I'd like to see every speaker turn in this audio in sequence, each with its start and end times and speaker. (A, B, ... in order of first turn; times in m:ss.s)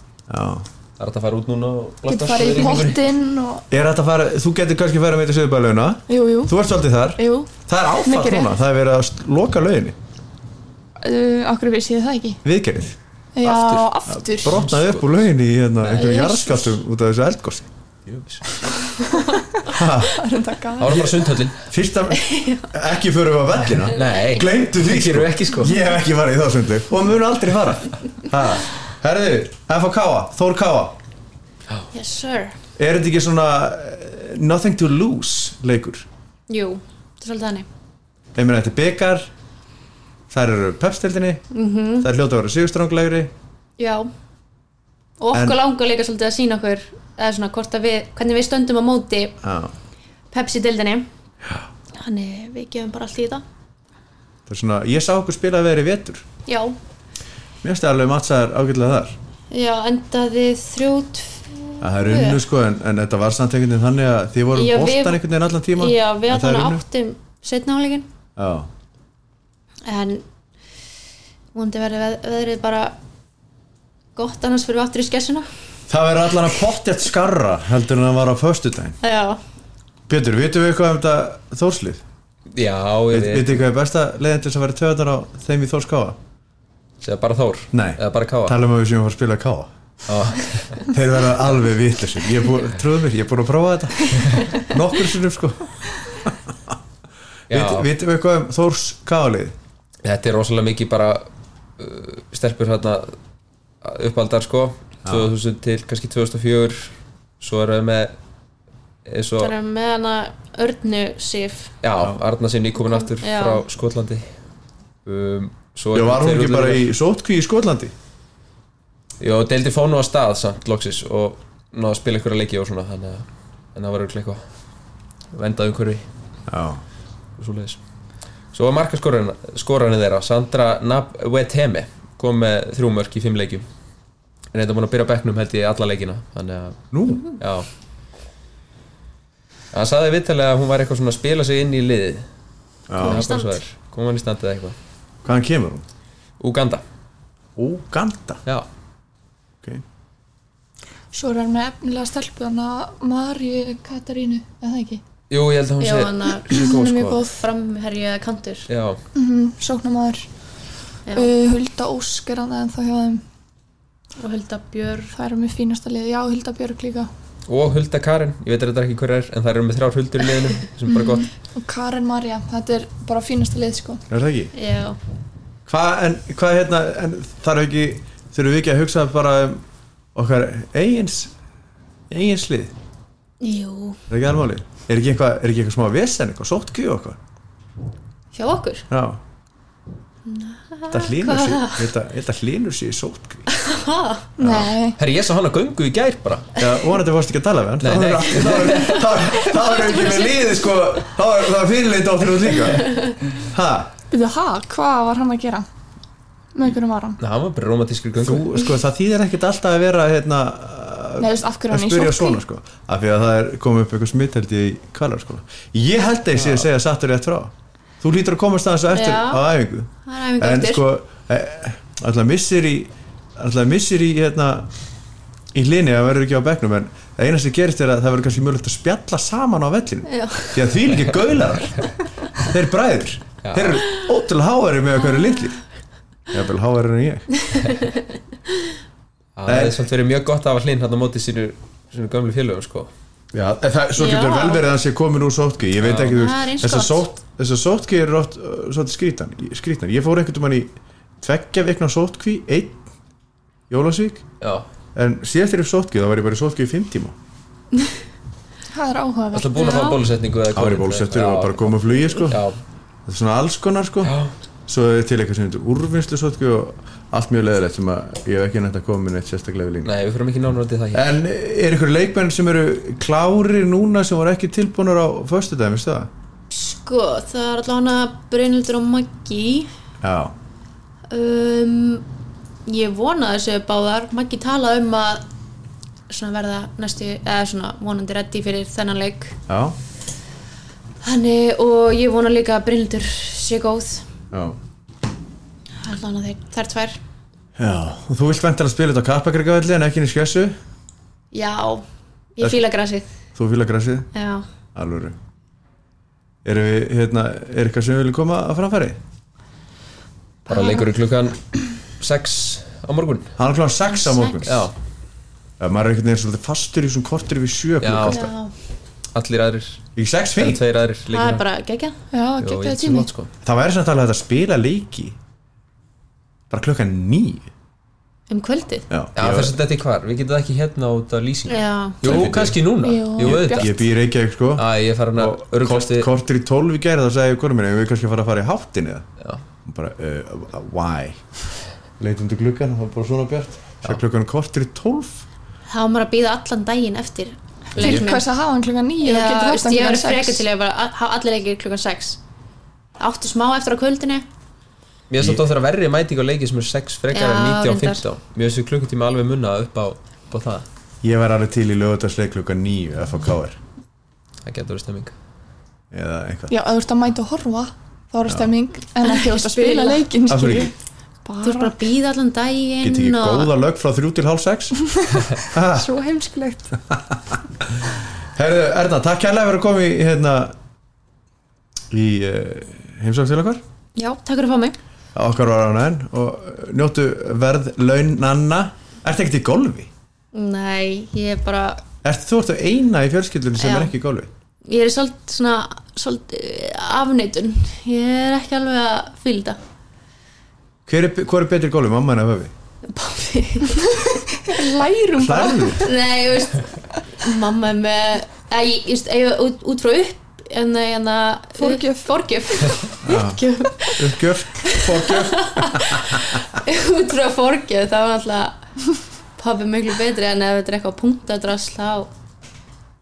0:00.3-0:00.6 A
0:01.0-0:03.0 B
0:02.1-0:03.6 C
0:03.7-0:10.0 A
0:06.1-0:06.6 C
0:07.2-0:08.5 C
0:11.0-0:12.4 C
0:12.4-0:13.0 A
0:13.4-0:14.6 C
0:13.4-0:13.8 B
0:14.1-0:17.7 A
0:14.4-0:15.2 B
0:15.8-0:16.1 B
0:15.9-0:16.7 C
0:18.1-0:18.6 B
0:19.1-0:21.1 C
0:19.7-0:20.2 A
0:20.8-0:21.6 B
0:20.8-0:31.0 A
0:22.1-0:22.7 D
0:23.8-0:25.8 B
0:31.9-0:32.5 D
0:32.8-0:36.1 A
0:36.5-0:37.7 D
0:38.4-0:39.3 A
0:40.3-0:41.4 A
0:41.5-0:42.1 D
0:42.0-0:43.3 A
0:43.8-0:44.1 D
0:45.2-0:49.4 D
0:45.3-0:45.6 A
0:49.4-0:49.7 A
0:50.3-0:51.1 D
0:51.9-0:53.4 D
0:54.5-0:56.2 A
0:56.5-0:56.8 D
0:57.6-0:59.2 A
0:59.5-1:02.4 D
1:01.8-1:06.8 A
1:04.5-1:05.2 D
1:05.7-1:08.1 D
1:08.4-1:08.7 A
1:09.9-1:10.2 D
1:11.5-1:12.9 D
1:14.1-1:15.5 D
1:15.9-1:19.0 A
1:19.0-1:19.4 D
1:20.1-1:22.0 A
1:22.5-1:23.6 B
1:23.1-1:26.2 A
1:27.0-1:28.6 B
1:27.7-1:29.7 A
1:30.1-1:30.8 B
1:30.8-1:36.7 A
1:37.5-1:37.9 B
1:37.5-1:39.5 A
1:40.0-1:43.1 B
1:43.8-1:48.1 B
1:45.0-1:45.3 A
1:49.1-1:49.5 B
1:49.4-1:51.7 D
1:51.8-1:54.3 B
1:52.8-1:53.6 D
1:55.0-1:56.9 B
1:55.9-1:57.9 A
1:59.2-2:04.4 B
2:05.3-2:06.0 B
2:06.5-2:06.8 A
2:07.4-2:07.8 B
2:08.5-2:13.6 B
2:14.5-2:16.8 B
2:16.9-2:17.4 A
2:17.4-2:17.7 B
2:19.7-2:22.3 B
2:22.9-2:23.3 A
2:23.0-2:23.6 D
2:23.0-2:24.8 B
2:25.2-2:25.8 A
2:26.4-2:26.8 B
2:27.6-2:28.4 A
2:31.1-2:35.0 C
2:35.3-2:37.2 B
2:35.8-2:38.7 D
2:36.5-2:37.4 C
2:38.7-2:39.0 B
2:39.1-2:40.3 C
2:41.1-2:43.2 C
2:44.2-2:45.1 D
2:45.1-2:47.1 C
2:47.5-2:51.3 B
2:51.5-2:54.0 C
2:54.1-2:54.5 A
2:54.5-2:55.0 D
2:55.6-2:59.6 A
3:00.1-3:01.3 A
3:02.1-3:02.7 A
3:03.4-3:04.0 D
3:04.1-3:07.2 A
3:08.3-3:08.9 D
3:08.9-3:09.2 A
3:10.3-3:11.8 D
3:10.9-3:13.4 A
3:13.5-3:14.3 D
3:14.4-3:15.0 C
3:14.4-3:14.7 A
3:15.0-3:16.5 B
3:16.6-3:23.9 A
3:17.8-3:19.0 B
3:19.7-3:20.3 D
3:24.1-3:25.7 C
3:26.5-3:27.2 C
3:27.2-3:28.6 B
3:28.2-3:44.7 A
3:31.2-3:32.4 C
3:38.9-3:39.4 D
3:40.1-3:40.8 D
3:45.5-3:51.8 A
3:50.1-3:50.7 D
3:52.4-3:55.6 A
3:53.4-3:53.8 B
3:56.3-3:57.3 A
3:57.5-3:58.0 D
3:59.4-4:02.9 B
3:59.4-3:59.8 A
4:03.3-4:12.8 A
4:04.0-4:04.6 D
4:05.8-4:06.2 B
4:06.0-4:07.0 D
4:13.7-4:14.2 A
4:14.4-4:14.6 B
4:14.9-4:17.1 A
4:18.7-4:19.9 C
4:19.3-4:22.6 B
4:19.5-4:20.0 D
4:20.5-4:22.4 A
4:23.1-4:24.1 A
4:24.0-4:24.3 B
4:24.7-4:29.9 A
4:29.8-4:31.2 B
4:30.9-4:36.1 A
4:36.5-4:39.7 D
4:40.0-4:40.3 A
4:41.1-4:42.0 D
4:42.6-4:45.2 D
4:46.1-4:49.4 D
4:49.5-4:49.8 A
4:51.0-4:54.0 D
4:54.3-4:54.6 A
4:55.8-4:57.0 D
4:57.6-5:00.6 A
5:01.3-5:01.8 D
5:02.4-5:03.1 D
5:03.4-5:04.1 A
5:04.1-5:04.4 D
5:04.7-5:05.2 A
5:06.4-5:09.0 A
5:10.5-5:11.4 B
5:12.0-5:13.3 B
5:13.4-5:14.7 A
5:13.9-5:14.5 D
5:14.4-5:14.7 B
5:15.6-5:18.3 A
5:17.8-5:18.2 B
5:18.1-5:18.5 D
5:19.1-5:19.8 B
5:20.0-5:20.6 A
5:20.4-5:21.4 B
5:21.1-5:22.0 D
5:22.1-5:23.1 C
5:22.4-5:23.3 B
5:23.4-5:25.2 A
5:26.5-5:27.5 A
5:28.3-5:28.9 D
5:28.9-5:29.6 A
5:29.2-5:33.8 B
5:31.5-5:32.3 D
5:32.0-5:32.6 A
5:32.8-5:33.8 C
5:33.2-5:39.0 A
5:34.5-5:36.1 B
5:39.6-5:41.2 A
5:42.0-5:45.2 A
5:45.7-5:48.2 D
5:47.8-5:50.4 C
5:47.8-5:48.1 A
5:49.0-5:52.2 D
5:53.0-5:54.2 D
5:55.1-6:00.6 B
5:57.1-5:58.0 D
6:01.0-6:03.6 A
6:04.4-6:05.1 B
6:05.9-6:06.5 A
6:06.5-6:10.7 C
6:08.3-6:08.5 A
6:09.0-6:10.0 D
6:10.2-6:10.7 A
6:11.2-6:11.8 C
6:11.4-6:13.5 D
6:12.8-6:15.9 A
6:15.0-6:16.8 C
6:16.9-6:20.5 A
6:21.9-6:23.6 A
6:24.0-6:24.8 D
6:25.1-6:29.9 A
6:30.3-6:31.8 D
6:32.0-6:34.3 A
6:33.6-6:33.9 D
6:34.6-6:39.6 D
6:40.9-6:42.5 A
6:42.9-6:44.2 D
6:44.4-6:45.8 C
6:45.2-6:45.9 A
6:45.8-6:46.7 D
6:47.2-6:58.6 D
6:51.6-6:52.7 C
6:53.0-6:53.4 A
6:54.0-6:56.2 A
6:59.4-7:02.1 D